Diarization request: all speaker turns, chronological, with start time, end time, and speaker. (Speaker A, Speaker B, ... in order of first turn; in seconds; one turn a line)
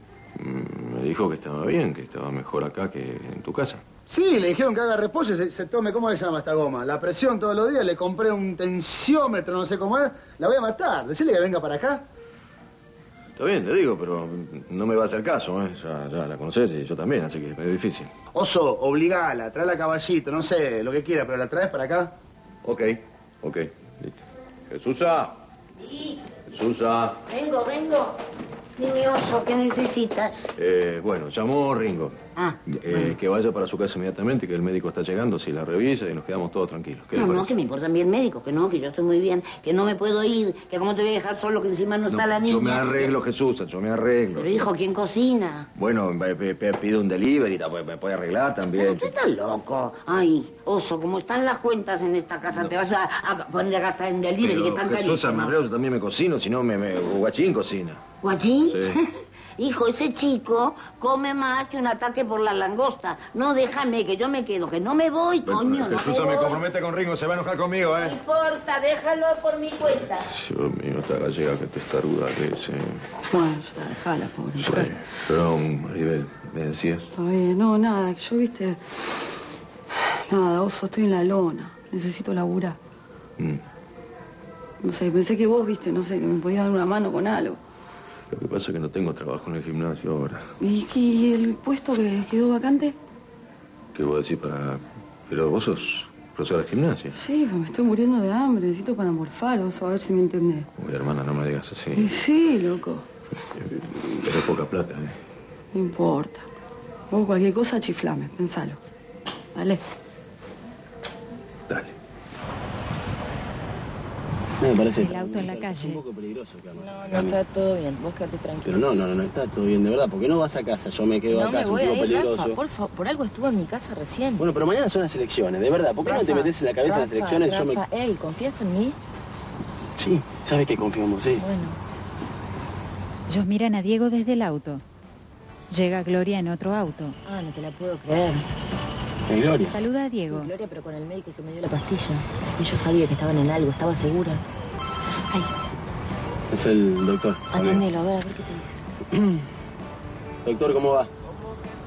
Speaker A: 0.4-3.8
Speaker B: 4.1-12.0
Speaker A: 13.4-18.1
Speaker B: 18.3-22.1
Speaker A: 22.6-24.1
Speaker A: 24.7-25.4
Speaker C: 25.8-26.3
Speaker A: 26.5-27.2
Speaker C: 27.3-28.2
Speaker C: 28.8-30.5
Speaker A: 30.6-37.5
Speaker C: 32.4-33.2
Speaker C: 37.1-43.1
Speaker A: 42.1-44.7
Speaker C: 44.4-45.7
Speaker A: 45.8-49.1
Speaker C: 48.8-55.6
Speaker A: 54.4-58.0
Speaker C: 58.2-66.6
Speaker A: 58.7-59.0
Speaker A: 65.4-68.2
Speaker C: 68.0-70.3
Speaker A: 69.8-73.0
Speaker D: 73.3-74.9
Speaker A: 74.6-77.1
Speaker D: 77.1-78.8
Speaker D: 80.3-82.8
Speaker D: 84.8-87.6
Speaker A: 88.3-90.5
Speaker D: 90.6-92.9
Speaker A: 93.9-97.2
Speaker D: 97.2-100.7
Speaker A: 100.8-102.1
Speaker D: 102.0-103.0
Speaker A: 103.6-105.2
Speaker D: 105.7-106.4
Speaker D: 107.1-108.8
Speaker D: 109.5-109.8
Speaker E: 114.6-117.4
Speaker F: 115.0-116.0
Speaker G: 116.8-118.8
Speaker E: 118.7-122.6
Speaker G: 121.3-124.5
Speaker E: 124.4-127.8
Speaker G: 126.0-129.0
Speaker E: 130.0-131.4
Speaker G: 131.4-131.8
Speaker F: 133.3-134.8
Speaker F: 135.7-137.2
Speaker G: 137.2-138.5
Speaker E: 139.3-139.8
Speaker F: 139.7-140.5
Speaker G: 140.3-144.4
Speaker E: 146.5-147.8
Speaker G: 147.5-148.7
Speaker E: 150.4-151.1